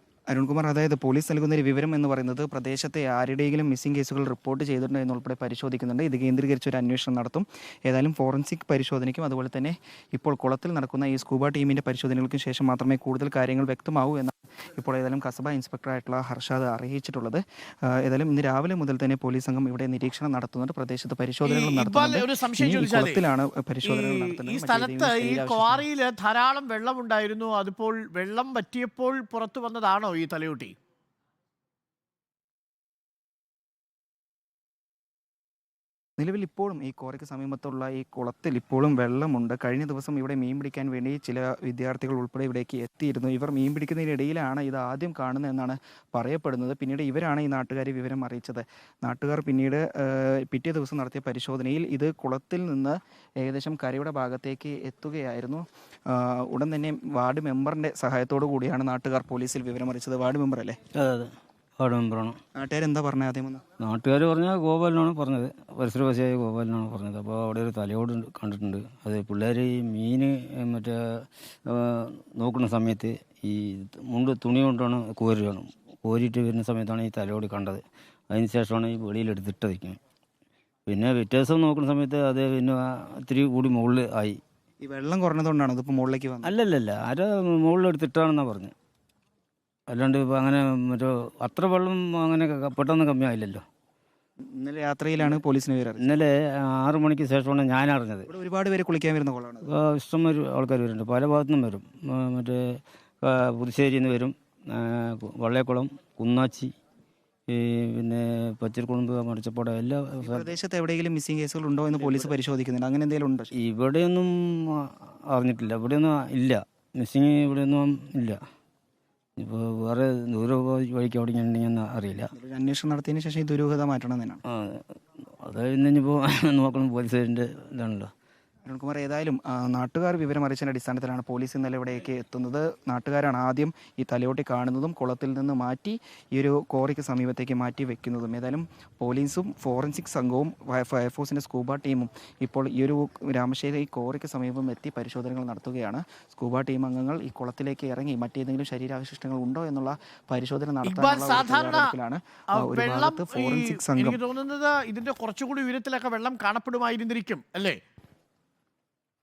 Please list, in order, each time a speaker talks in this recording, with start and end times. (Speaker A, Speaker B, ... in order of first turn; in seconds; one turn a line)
Speaker A: 0.3-25.9
Speaker B: 21.4-23.2
Speaker B: 23.9-30.7
Speaker A: 36.2-60.8
Speaker C: 61.0-62.4
Speaker A: 62.6-63.6
Speaker C: 63.8-80.0
Speaker C: 80.9-84.4
Speaker A: 84.8-86.5
Speaker C: 86.4-88.7
Speaker C: 89.9-93.6
Speaker A: 94.6-96.1
Speaker C: 96.0-98.3
Speaker A: 98.3-99.7
Speaker C: 99.7-106.7
Speaker C: 107.5-110.5
Speaker A: 110.2-113.5
Speaker C: 112.0-112.3
Speaker C: 113.6-118.4
Speaker C: 119.4-122.3
Speaker A: 122.3-124.4
Speaker C: 124.5-128.1
Speaker A: 128.7-154.2
Speaker B: 150.8-151.9
Speaker B: 152.6-157.8